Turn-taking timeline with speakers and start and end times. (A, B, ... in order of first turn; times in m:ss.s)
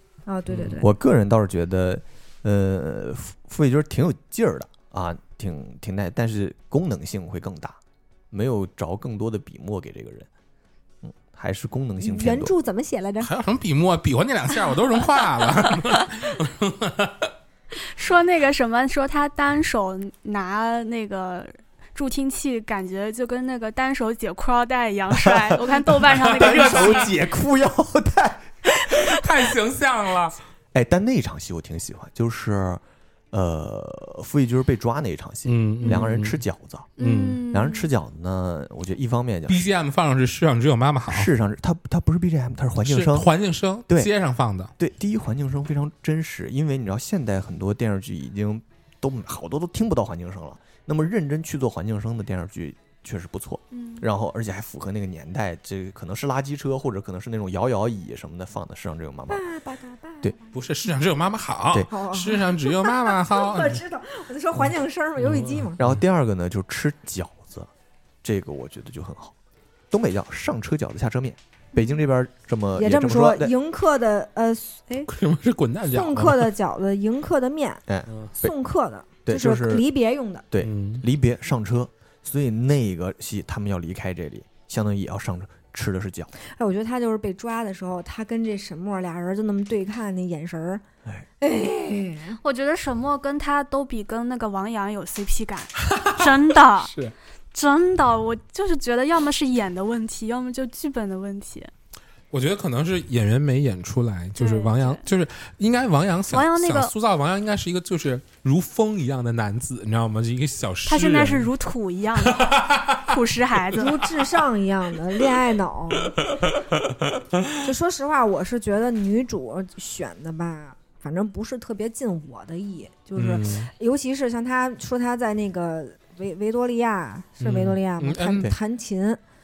0:00.3-0:00.9 A
0:00.7-0:07.8 B
0:08.3-0:10.3 B
0:11.0-0:12.5 B
0:12.0-0:13.3 A
0:13.2-0:17.3 C
0:17.8-0:27.1 D
0:25.1-0:29.0 B
0:26.1-0:27.1 C
0:28.9-0:30.4 C
0:30.7-0:36.9 B
0:35.5-0:36.4 C
0:37.0-0:37.4 C
0:37.0-0:37.9 D
0:37.5-0:39.7 B
0:39.5-0:41.3 C
0:41.1-0:43.3 B
0:42.8-0:44.7 C
0:44.8-0:59.4 B
0:53.7-0:54.1 D
0:59.3-1:00.5 A
1:00.5-1:03.8 C
1:01.9-1:05.8 A
1:05.2-1:06.0 C
1:05.8-1:07.7 B
1:08.2-1:09.4 B
1:09.9-1:13.5 B
1:12.8-1:15.1 A
1:15.1-1:16.5 C
1:15.9-1:17.8 A
1:17.9-1:18.5 B
1:18.4-1:20.5 A
1:19.2-1:19.8 B
1:20.5-1:26.3 B
1:20.6-1:21.0 C
1:26.5-1:30.8 A
1:31.4-1:32.4 A
1:32.4-1:36.9 D
1:35.9-1:36.3 C
1:36.8-1:37.1 C
1:37.5-1:41.7 D
1:42.3-1:51.5 C
1:44.4-1:45.1 D
1:46.3-1:46.9 D
1:50.9-1:53.9 D
1:52.2-1:53.0 C
1:53.7-1:56.1 A
1:56.3-1:56.6 C
1:57.6-2:09.2 A
2:03.2-2:03.7 C
2:07.4-2:08.5 C